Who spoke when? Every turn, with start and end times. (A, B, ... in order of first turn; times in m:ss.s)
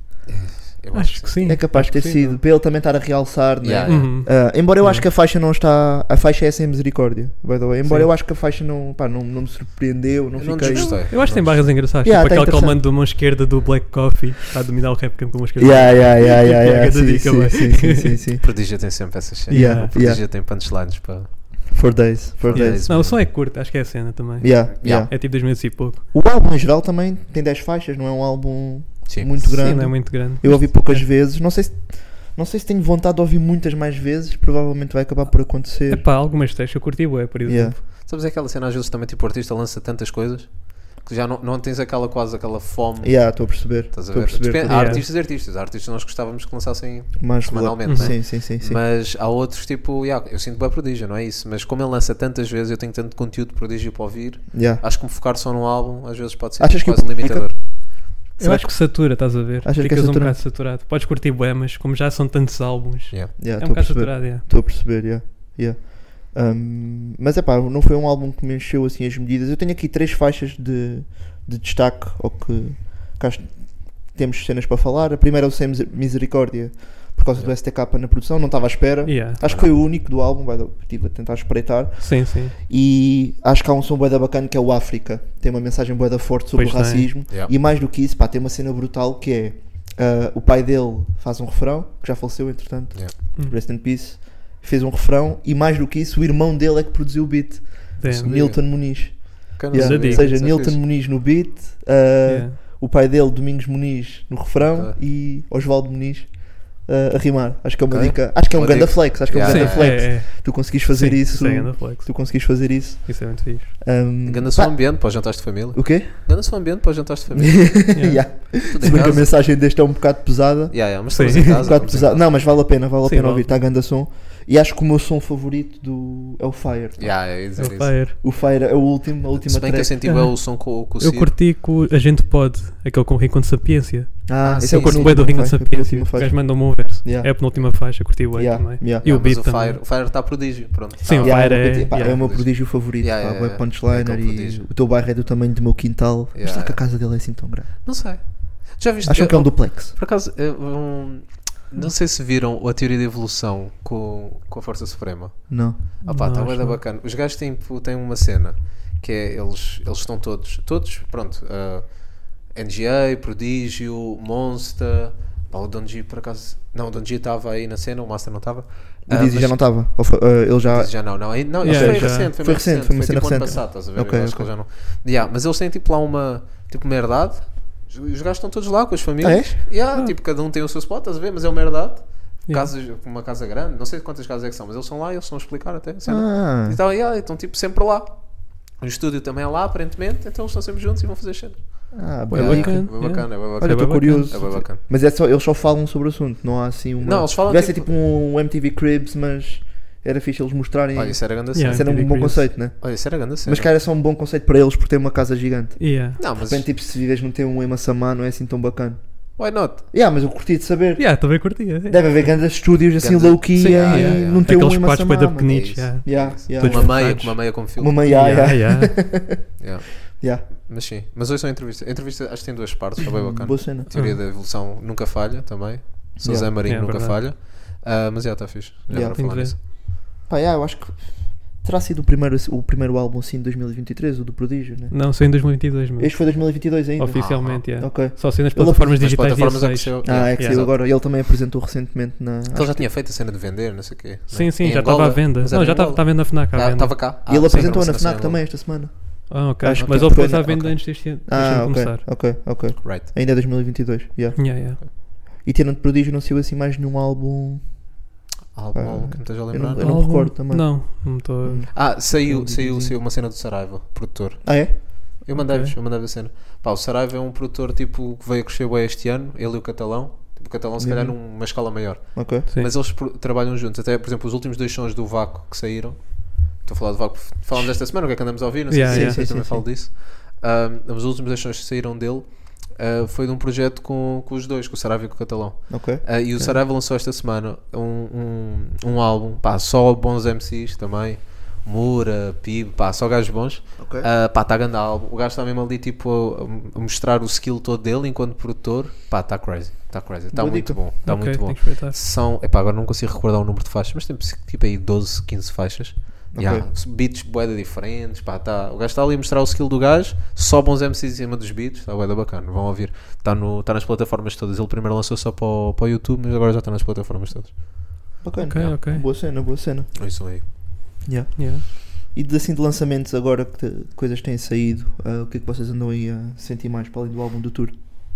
0:00.2-0:01.5 A
0:00.9-0:02.4 B
0:01.4-0:11.2 C
0:03.6-0:04.1 A
0:03.9-0:05.0 B
0:10.3-0:11.8 A
0:10.7-0:18.2 B
0:12.0-0:12.8 C
0:15.6-0:20.2 C
0:18.4-0:21.8 A
0:19.5-0:19.9 B
0:21.7-0:22.8 C
0:22.5-0:23.2 A
0:22.5-0:26.0 B
0:24.4-0:36.0 C
0:24.8-0:25.1 A
0:29.1-0:29.9 A
0:29.6-0:31.1 B
0:35.9-0:37.8 B
0:37.4-0:37.8 C
0:37.9-0:57.8 A
0:43.0-0:45.1 C
0:44.7-0:45.0 B
0:47.2-0:48.8 C
0:47.8-0:48.1 B
0:54.5-0:54.8 C
0:56.6-1:00.4 C
0:58.4-1:04.4 B
1:03.4-1:56.1 C
1:19.0-1:19.4 B
1:19.4-1:19.7 A
1:22.0-1:22.5 B
1:26.5-1:27.2 B
1:38.0-1:38.6 B
1:38.0-1:40.8 A
1:39.7-1:40.4 B
1:42.2-1:42.6 B
1:44.6-1:45.0 A
1:47.9-1:50.1 A
1:49.4-1:53.8 B
1:54.2-1:57.9 A
1:57.4-2:07.6 C
1:57.9-1:59.2 B
1:58.6-1:59.4 A
2:00.7-2:02.3 A
2:01.1-2:01.8 B
2:03.0-2:03.5 B
2:07.0-2:08.0 A
2:07.6-2:08.2 B
2:08.2-2:10.0 C
2:09.4-2:11.4 A
2:10.0-2:19.8 B
2:14.3-2:19.1 C
2:14.4-2:15.5 A
2:19.0-2:24.7 A
2:21.0-2:22.3 B
2:21.2-2:28.3 C
2:26.3-2:26.8 A
2:27.8-2:50.0 A
2:29.0-2:30.0 C
2:35.5-2:35.8 C
2:36.0-2:36.8 B
2:49.1-2:54.5 C
2:50.6-3:14.8 A
2:51.6-2:52.3 B
2:59.2-2:59.6 C
3:06.0-3:06.8 C
3:11.9-3:29.4 C
3:12.3-3:14.6 B
3:17.0-3:17.9 A
3:20.9-3:23.7 A
3:21.5-3:22.5 B
3:25.8-3:26.2 B
3:26.2-3:26.6 A
3:29.4-3:29.8 A
3:29.9-3:40.5 C
3:31.0-3:32.4 B
3:33.0-3:34.5 A
3:33.6-3:39.3 B
3:35.5-3:38.4 A
3:39.6-3:49.6 A
3:43.0-3:43.9 C
3:43.9-3:44.2 B
3:46.2-3:46.5 C
3:46.6-3:47.2 B
3:48.9-3:59.2 C
3:49.2-3:49.5 B
3:54.9-4:00.7 B
3:57.1-3:57.6 A
3:59.0-4:00.8 A
4:00.0-4:02.9 C
4:02.5-4:08.4 A
4:04.3-4:07.7 B
4:07.2-4:18.0 C
4:09.3-4:12.1 B
4:09.8-4:10.3 A
4:14.4-4:14.8 B
4:18.5-4:20.0 A
4:18.7-4:23.0 C
4:19.8-4:21.7 B
4:21.7-5:18.8 A
4:24.4-4:24.9 C
4:25.3-4:25.7 B
4:30.8-4:31.2 C
4:32.1-4:32.5 C
4:37.5-4:37.8 C
4:38.7-4:39.5 B
4:38.9-4:39.6 C
4:45.7-4:46.2 C
4:53.8-4:54.1 C
5:00.3-5:00.8 C
5:01.0-5:02.0 B
5:06.3-5:06.7 C
5:18.2-5:20.0 C
5:18.4-5:19.0 B
5:19.9-5:20.4 A
5:21.0-5:27.7 C
5:21.4-5:21.6 B